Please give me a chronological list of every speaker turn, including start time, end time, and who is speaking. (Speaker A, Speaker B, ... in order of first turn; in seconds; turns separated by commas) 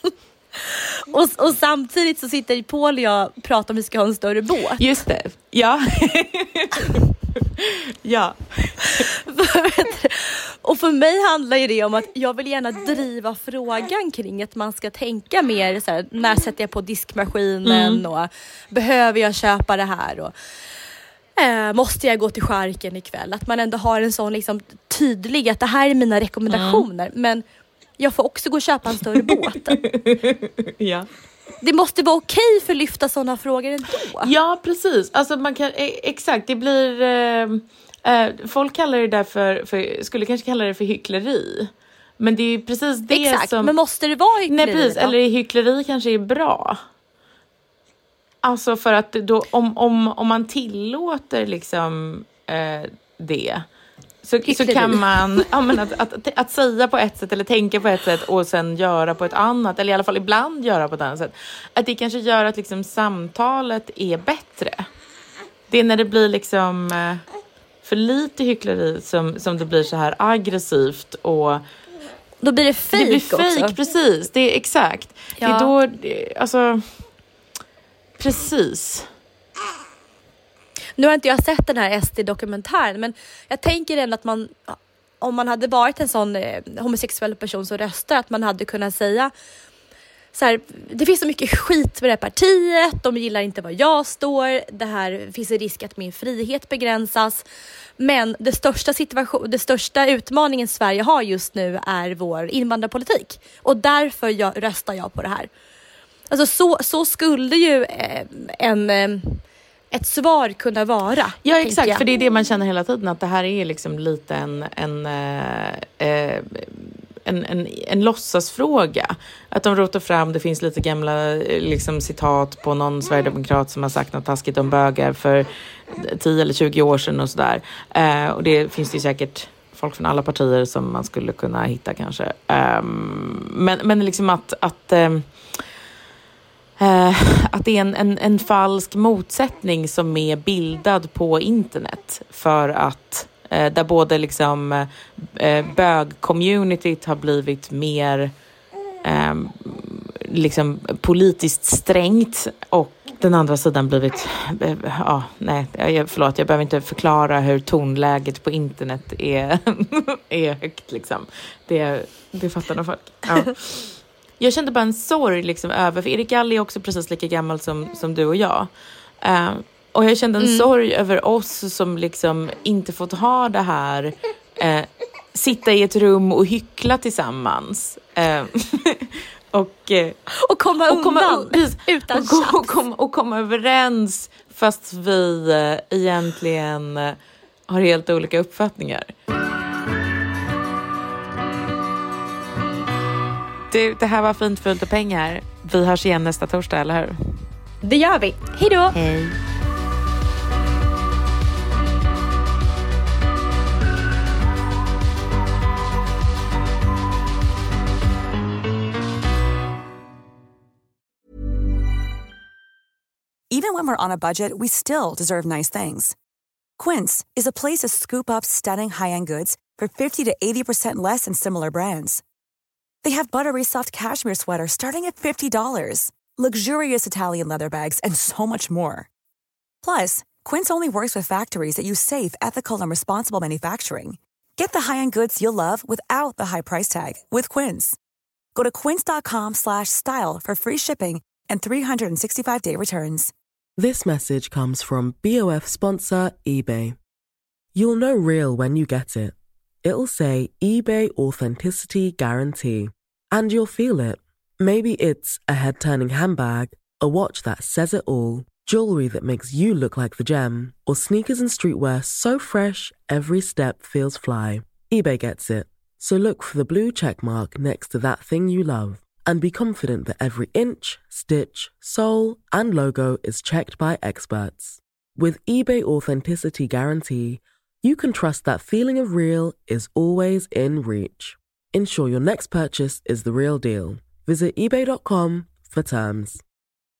Speaker A: 0.6-4.8, Speaker B: 4.8-7.0, Speaker B: 7.6-9.1, Speaker A: 9.0-20.3, Speaker B: 17.6-18.0, Speaker A: 21.4-27.4, Speaker B: 26.5-26.9, Speaker A: 28.0-29.8, Speaker B: 29.7-31.1, Speaker A: 31.6-34.3, Speaker B: 34.2-43.7, Speaker A: 43.1-45.1, Speaker B: 44.5-46.8, Speaker B: 48.4-53.6, Speaker B: 54.2-64.8, Speaker A: 54.5-55.0, Speaker B: 65.7-67.2, Speaker B: 67.8-71.6, Speaker A: 72.4-73.7, Speaker B: 72.9-76.9, Speaker A: 75.4-75.7, Speaker B: 78.2-79.0, Speaker A: 81.0-89.3, Speaker A: 90.3-97.4, Speaker A: 98.0-105.5, Speaker A: 106.3-112.0, Speaker B: 111.4-135.5, Speaker B: 136.8-148.3, Speaker B: 149.0-168.7, Speaker B: 169.2-180.2, Speaker A: 170.4-170.7, Speaker A: 180.3-182.7, Speaker B: 180.9-187.2, Speaker B: 187.7-189.1, Speaker B: 193.7-197.2, Speaker A: 197.8-198.9, Speaker B: 198.9-199.4, Speaker C: 213.5-216.1, Speaker C: 216.8-222.2, Speaker C: 223.0-229.1, Speaker C: 229.8-238.0, Speaker C: 238.5-243.3, Speaker D: 243.8-246.9, Speaker D: 247.7-286.4